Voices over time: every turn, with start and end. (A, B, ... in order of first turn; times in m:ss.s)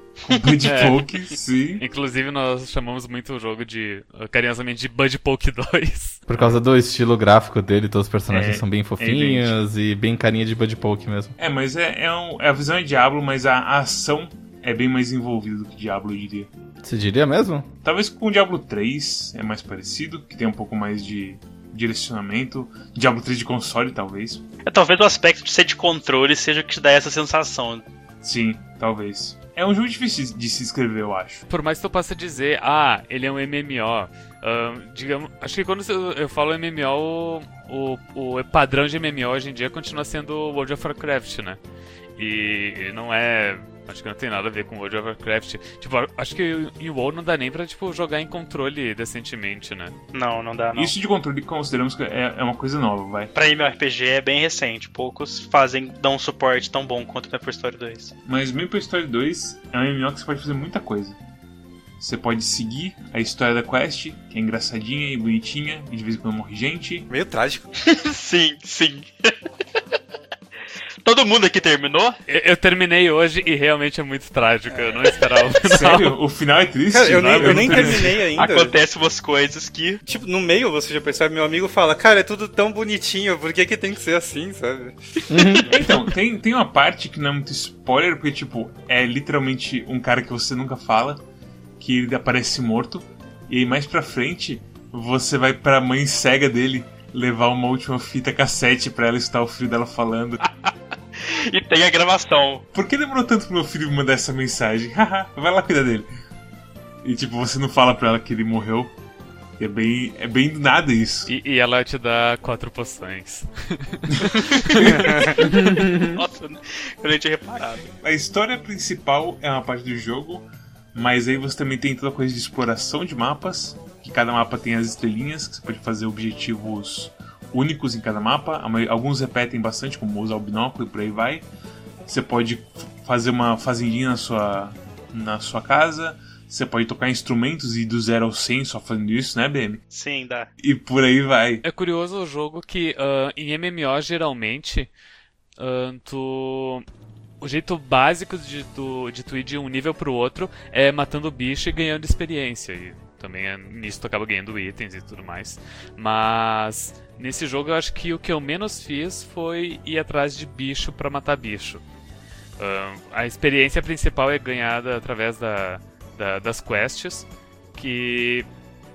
0:00.2-0:01.8 A
0:00.3-0:00.6 B
0:00.6-0:01.0 C
0:01.8-0:06.2 C
0:06.3-0:11.4 D
0:08.3-0:09.5 A
0:11.4-0:16.5 A
0:16.8-0:17.7 D
0:17.8-0:24.4 A
0:24.7-0:27.8 B
0:28.2-0:31.4 A
0:31.5-0:41.6 C
0:42.2-0:50.0 C
0:50.1-0:50.9 B
0:50.8-0:53.3 A
0:53.3-0:58.1 B
0:58.3-1:01.2 A
1:02.0-1:07.1 A
1:07.1-1:07.7 E
1:07.8-1:09.3 B
1:11.0-1:12.2 B
1:12.3-1:16.1 C
1:14.7-1:15.1 E
1:15.6-1:18.2 A
1:16.9-1:18.8 E
1:17.5-1:20.0 B
1:20.0-1:25.0 E
1:25.3-1:25.6 D
1:25.7-1:31.2 A
1:31.8-1:40.4 A
1:40.4-1:42.6 B
1:42.7-1:46.1 A
1:47.0-1:48.9 A
1:49.6-1:51.3 A
1:51.3-1:55.0 C
1:54.4-1:57.9 B
1:54.7-1:55.5 A
1:54.9-1:55.4 E
1:55.5-1:56.2 D
1:58.0-2:11.5 A
2:12.1-2:19.8 A
2:19.9-2:20.5 B
2:20.6-2:21.6 A
2:21.6-2:24.9 C
2:25.6-2:26.8 C
2:27.4-2:41.8 C
2:42.6-2:48.5 C